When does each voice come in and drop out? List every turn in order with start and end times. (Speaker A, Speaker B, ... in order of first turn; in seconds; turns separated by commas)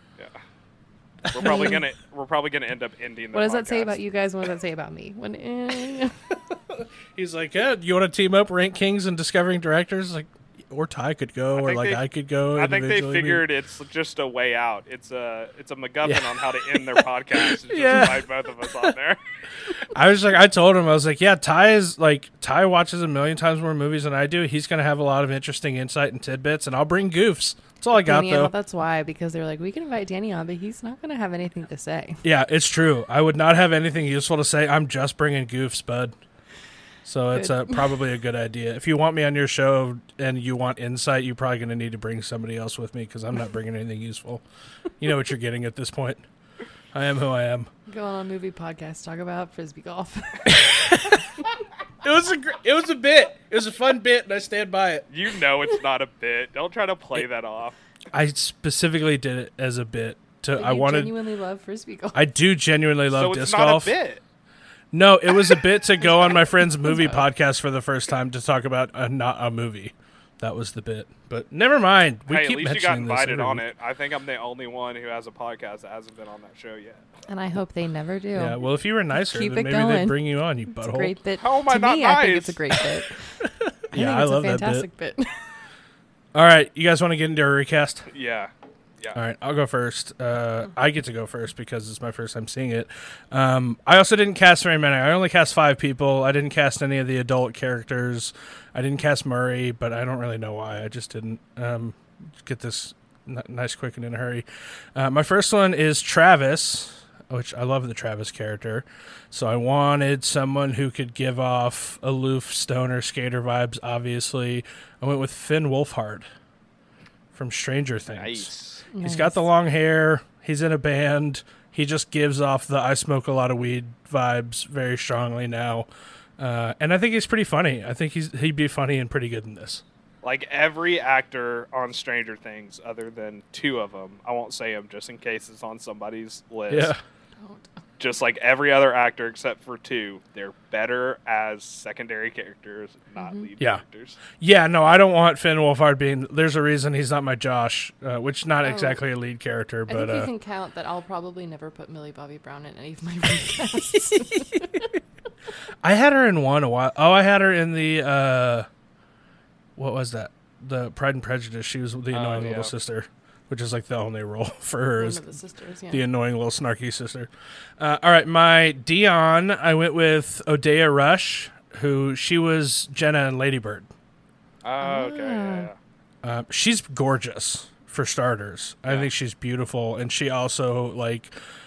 Speaker A: 1.2-1.8, Speaker B: 1.3-4.0, Speaker C: 1.4-1.8, Speaker C: 3.3-6.2, Speaker A: 6.3-13.4, Speaker B: 11.5-12.0, Speaker B: 12.5-19.2, Speaker A: 16.0-18.3, Speaker A: 19.9-28.5, Speaker C: 27.9-32.2, Speaker A: 32.2-36.1, Speaker A: 37.0-44.4, Speaker C: 37.3-37.9, Speaker A: 45.0-46.2, Speaker A: 46.9-47.7, Speaker C: 47.9-50.5, Speaker A: 50.5-51.4, Speaker A: 52.0-55.0, Speaker B: 55.1-57.8, Speaker A: 58.1-61.1, Speaker C: 60.6-62.2, Speaker A: 62.1-63.9, Speaker B: 63.1-64.2, Speaker A: 64.9-73.6, Speaker C: 66.8-67.2, Speaker B: 72.3-77.1, Speaker C: 77.3-78.6, Speaker A: 78.3-81.1, Speaker C: 79.1-83.4, Speaker B: 81.4-82.6, Speaker A: 83.4-84.9, Speaker C: 83.9-85.3, Speaker A: 86.3-88.1, Speaker B: 88.1-89.2, Speaker A: 89.1-116.3, Speaker A: 117.3-118.5, Speaker B: 118.1-118.8, Speaker C: 118.9-119.4, Speaker A: 119.0-125.9, Speaker A: 126.4-129.8, Speaker B: 130.2-136.9, Speaker A: 136.7-137.0, Speaker C: 137.4-137.7, Speaker B: 138.0-144.2, Speaker C: 143.2-143.4, Speaker A: 143.6-150.3, Speaker C: 148.6-149.0, Speaker C: 149.9-154.8, Speaker A: 154.1-155.0, Speaker A: 155.8-158.7, Speaker A: 159.8-165.2, Speaker B: 162.1-162.7, Speaker C: 165.0-166.0, Speaker A: 165.9-173.9, Speaker B: 174.6-175.8, Speaker C: 174.8-175.7, Speaker A: 176.2-181.3